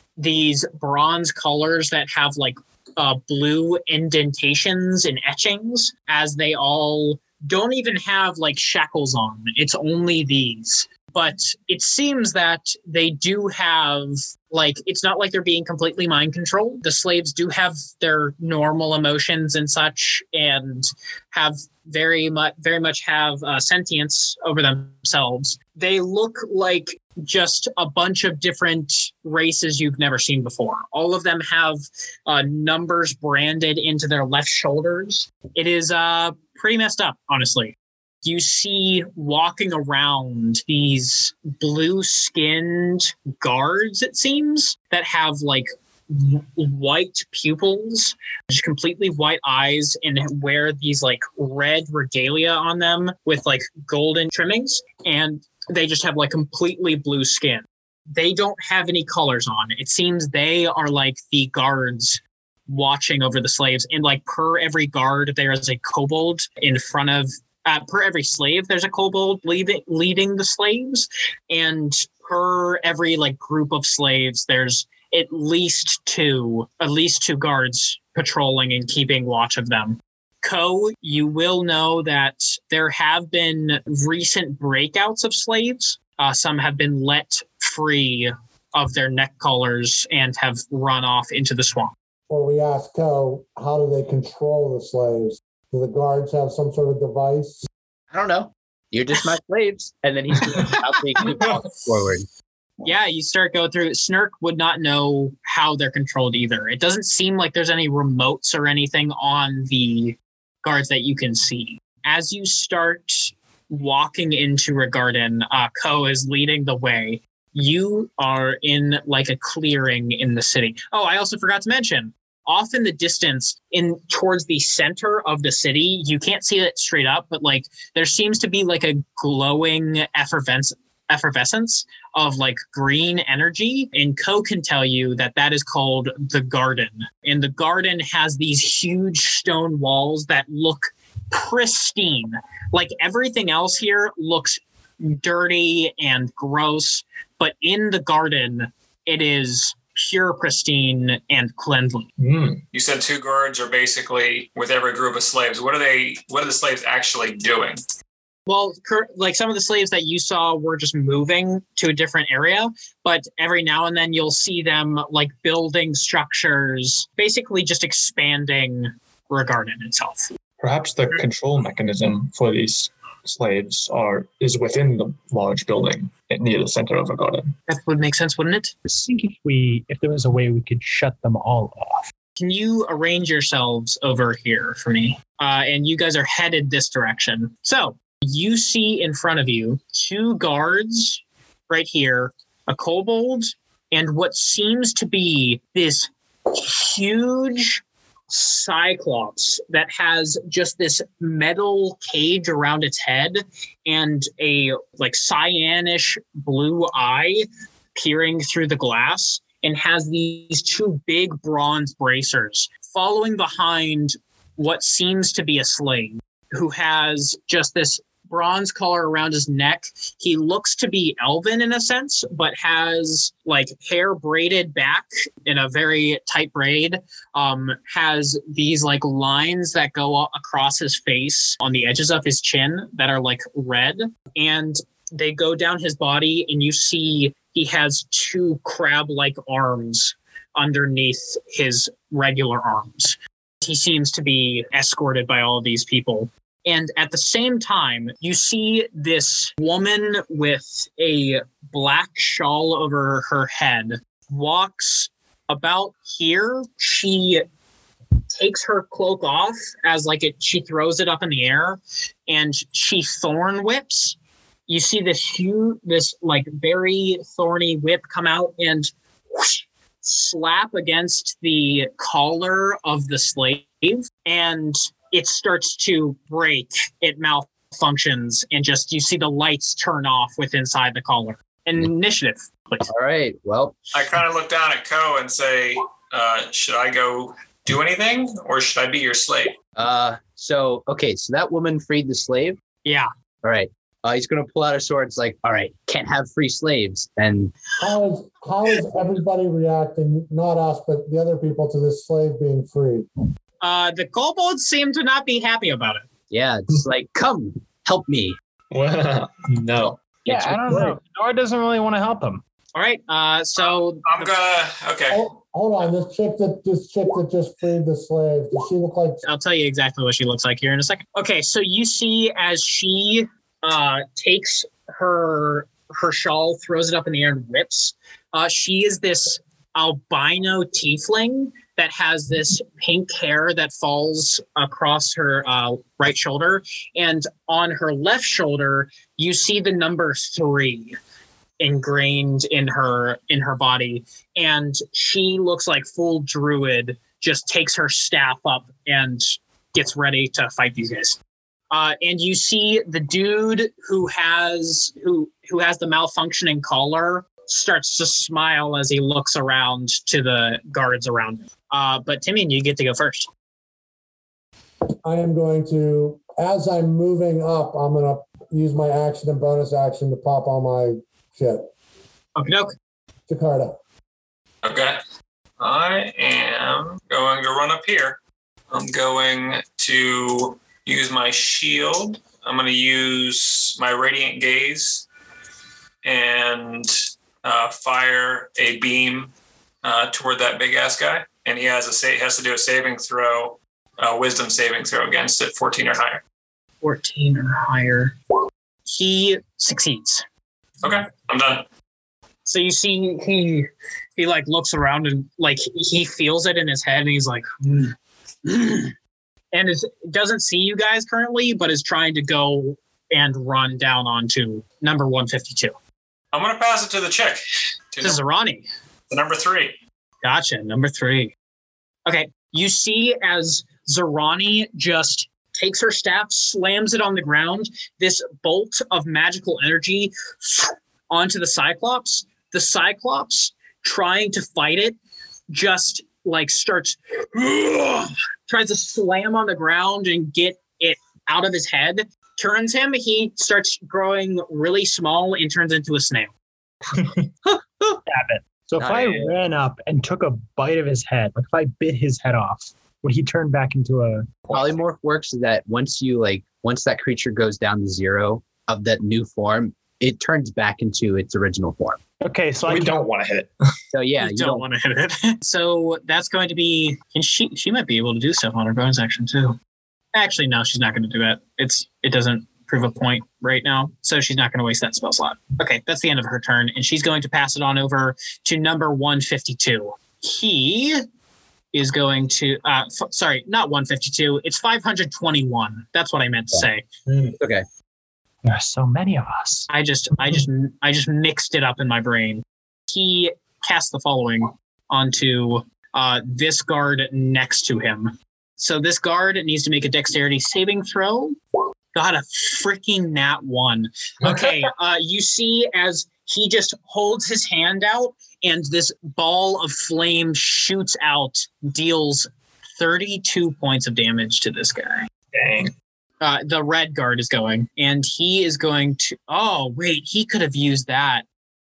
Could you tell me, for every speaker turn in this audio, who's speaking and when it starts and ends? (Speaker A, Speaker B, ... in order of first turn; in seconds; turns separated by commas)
Speaker A: 0.2-91.9, Speaker B: 92.3-97.7, Speaker C: 98.1-102.2, Speaker A: 102.8-152.1, Speaker D: 152.2-152.6, Speaker E: 152.7-157.8, Speaker A: 158.5-170.2, Speaker D: 170.6-177.5, Speaker A: 177.7-178.7, Speaker F: 178.8-182.1, Speaker A: 182.4-207.4, Speaker A: 207.9-257.4, Speaker A: 258.3-264.1, Speaker A: 264.7-282.9, Speaker C: 282.9-283.8, Speaker E: 283.9-289.5, Speaker C: 289.8-292.6, Speaker C: 293.4-297.5, Speaker B: 297.8-303.1, Speaker A: 303.6-306.0, Speaker C: 306.3-308.4, Speaker D: 308.7-310.1, Speaker F: 310.2-312.4, Speaker C: 310.3-310.9, Speaker A: 312.7-314.3, Speaker E: 314.0-315.2, Speaker B: 315.1-319.2, Speaker A: 319.2-340.9, Speaker A: 341.6-351.2, Speaker A: 351.7-363.3, Speaker B: 365.0-371.7, Speaker A: 372.4-372.7, Speaker B: 373.3-373.8, Speaker E: 374.6-375.0, Speaker E: 375.6-378.2, Speaker E: 378.7-385.1, Speaker E: 386.0-389.3, Speaker E: 389.8-396.2, Speaker A: 396.8-398.1, Speaker A: 398.9-400.2, Speaker E: 400.8-401.6, Speaker A: 402.4-407.9, Speaker A: 408.4-408.9, Speaker A: 409.5-415.7, Speaker E: 416.3-417.4, Speaker E: 417.9-418.2, Speaker A: 418.0-418.6, Speaker E: 419.1-419.8, Speaker A: 420.2-421.3, Speaker A: 422.1-434.9, Speaker A: 435.5-446.3, Speaker D: 446.9-447.2, Speaker F: 448.1-454.3, Speaker D: 448.8-449.2, Speaker D: 454.4-454.7, Speaker C: 454.5-462.0, Speaker F: 462.2-463.0, Speaker D: 462.6-463.5, Speaker C: 463.9-464.6, Speaker A: 464.2-469.6, Speaker A: 470.1-481.0, Speaker A: 481.7-486.8, Speaker D: 487.1-487.4, Speaker C: 487.4-487.6, Speaker F: 488.4-489.7, Speaker A: 489.7-501.4, Speaker A: 501.9-515.1, Speaker D: 504.2-504.7, Speaker D: 515.3-515.7, Speaker A: 516.2-521.2